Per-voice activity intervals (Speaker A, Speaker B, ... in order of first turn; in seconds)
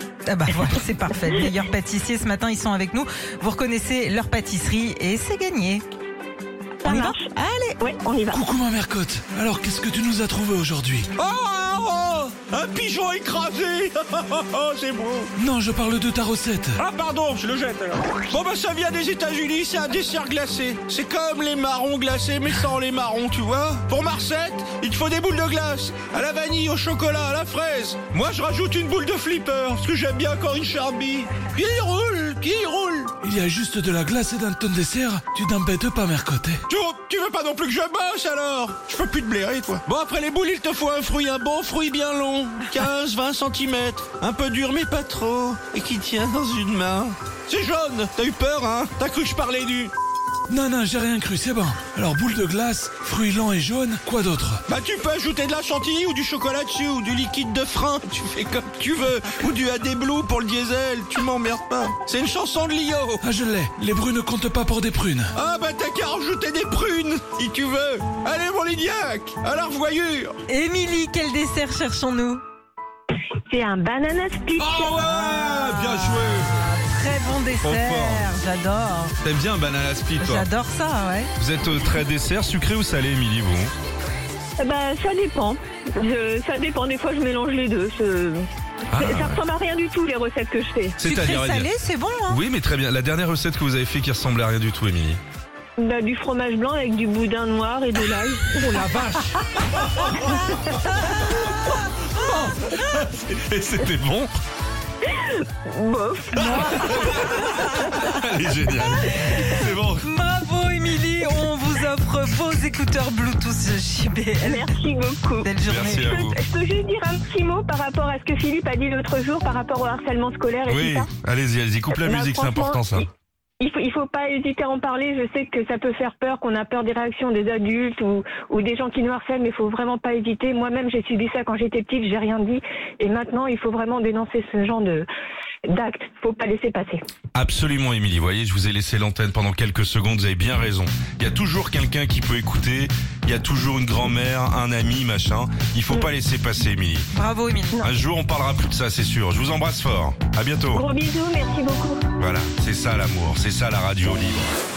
Speaker A: 0.2-5.8, 6.8-7.8, 70.5-72.4, 74.8-79.1, 80.2-81.3, 91.0-92.4, 100.2-102.8, 106.3-107.8, 108.9-114.7, 115.4-116.2, 147.1-147.8
Speaker B: 6.8-8.4, 73.5-75.0, 84.6-91.0, 95.8-99.4, 100.1-100.5, 105.0-107.2, 114.4-121.1, 121.9-123.1, 123.6-135.1, 135.7-137.0, 150.7-152.0
Speaker C: 8.3-11.1, 15.4-16.8, 33.2-36.6, 50.5-54.6, 63.2-65.3
Speaker D: 11.2-13.3, 14.0-15.1, 16.8-27.3, 27.8-33.1, 36.7-49.8, 54.7-56.3, 57.0-63.2, 65.3-70.2
Speaker E: 11.5-15.2, 17.0-32.9, 37.7-39.0, 41.5-49.9, 55.0-62.9, 65.5-70.3, 74.6-76.5, 77.6-78.2, 79.2-80.5, 81.4-83.7, 88.9-89.4, 91.0-91.7, 92.3-95.2, 102.3-104.3, 106.4-110.0, 115.6-116.4, 120.7-123.0, 137.3-147.1, 147.8-150.8, 152.2-154.6